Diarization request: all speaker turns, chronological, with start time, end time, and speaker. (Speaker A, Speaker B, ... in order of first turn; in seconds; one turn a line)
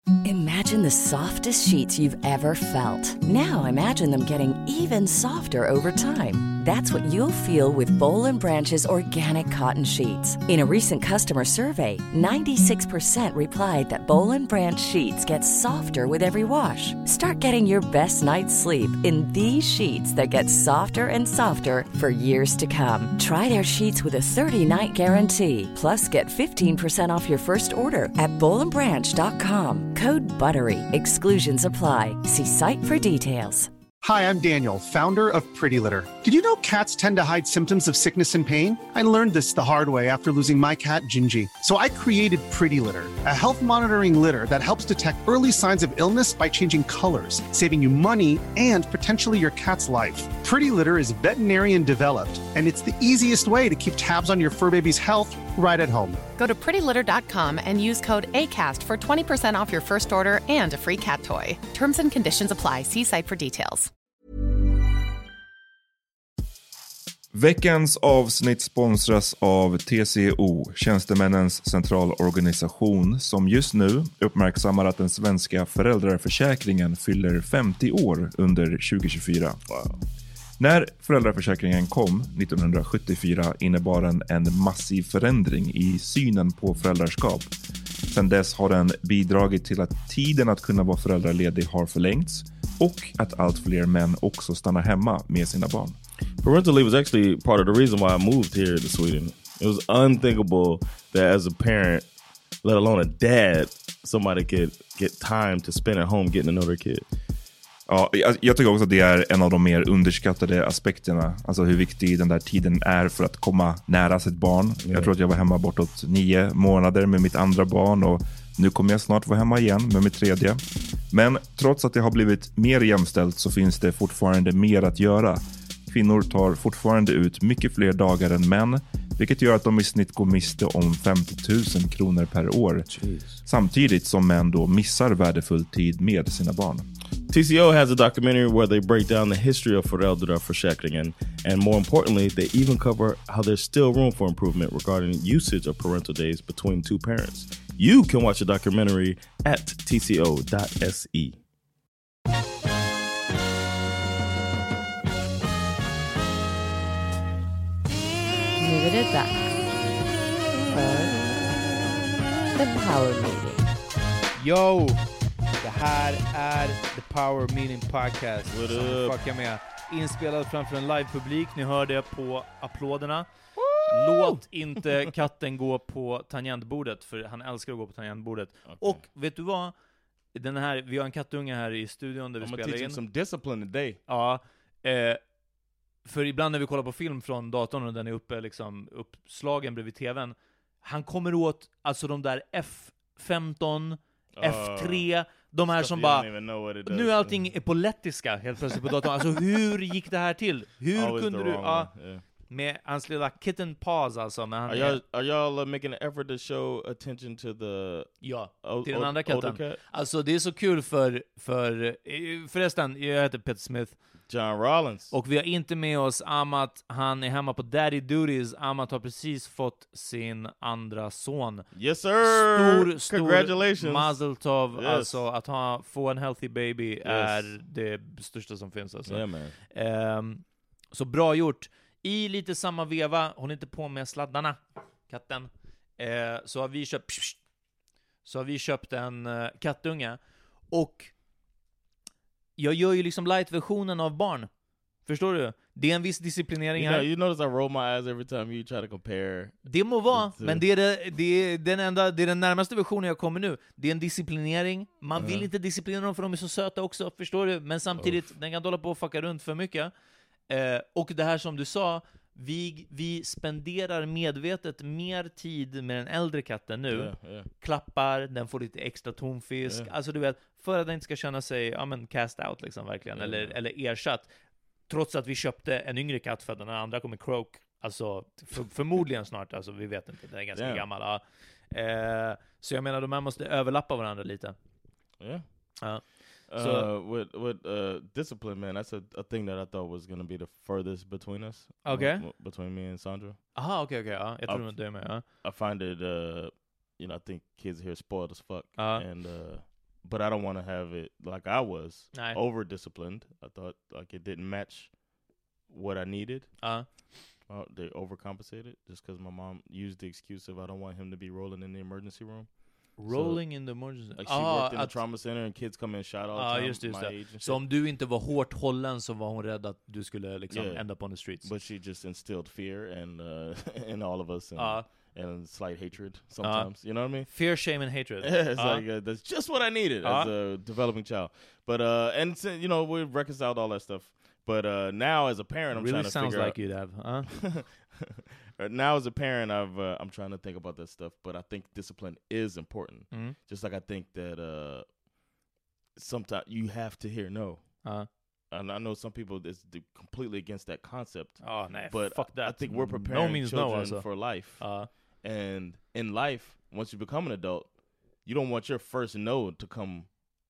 Speaker A: 0.2-33.7
Speaker B: 34.0-56.2
Speaker C: 56.4-63.9
Speaker D: 67.3-79.6
Speaker E: 79.7-80.0
Speaker D: 80.6-87.5
Speaker D: 88.1-96.0
Speaker E: 96.4-102.0
Speaker E: 102.6-107.0
Speaker D: 107.9-132.9
Speaker E: 114.8-115.1
Speaker E: 133.0-133.3
Speaker D: 133.4-136.9
Speaker E: 137.3-151.4
Speaker F: 158.6-159.6
Speaker F: 160.7-162.0
Speaker F: 162.5-163.7
Speaker G: 164.3-165.0
Speaker G: 165.6-173.3
Speaker E: 168.5-169.2
Speaker E: 173.6-174.4
Speaker G: 173.9-179.7
Speaker E: 178.7-179.0
Speaker G: 180.3-183.0
Speaker E: 182.4-184.0
Speaker G: 184.1-185.2
Speaker G: 186.0-196.3
Speaker E: 194.4-195.1
Speaker E: 195.7-197.5
Speaker G: 196.8-201.9
Speaker E: 200.9-202.2
Speaker G: 202.5-205.0
Speaker E: 204.7-209.8
Speaker G: 208.2-214.0
Speaker E: 214.3-215.1
Speaker G: 215.1-237.4
Speaker E: 221.7-225.2
Speaker E: 227.0-227.5
Speaker E: 229.1-229.6
Speaker G: 238.2-240.2
Speaker G: 240.7-241.1
Speaker G: 242.6-244.5
Speaker G: 245.0-247.1
Speaker E: 246.8-250.6
Speaker G: 249.7-259.9
Speaker E: 255.2-255.5
Speaker E: 258.0-258.2
Speaker G: 260.5-274.3
Speaker E: 266.9-267.5
Speaker E: 269.6-269.9
Speaker E: 273.1-273.6
Speaker G: 274.9-284.6
Speaker E: 280.5-280.8
Speaker E: 285.2-285.7
Speaker G: 285.8-286.9
Speaker E: 286.5-293.4
Speaker G: 291.8-292.2
Speaker G: 293.6-295.2
Speaker E: 294.5-305.0
Speaker G: 298.8-299.0
Speaker E: 305.7-306.7
Speaker E: 307.5-317.6
Speaker G: 313.0-315.0
Speaker G: 316.3-321.5
Speaker E: 320.5-327.3
Speaker G: 324.6-324.8
Speaker G: 326.4-328.8
Speaker E: 328.2-336.6
Speaker G: 330.0-330.3
Speaker G: 335.7-337.4
Speaker E: 337.3-344.9
Speaker E: 345.9-347.8
Speaker E: 348.5-354.7
Speaker G: 351.4-354.9
Speaker E: 355.2-357.7
Speaker E: 358.2-360.1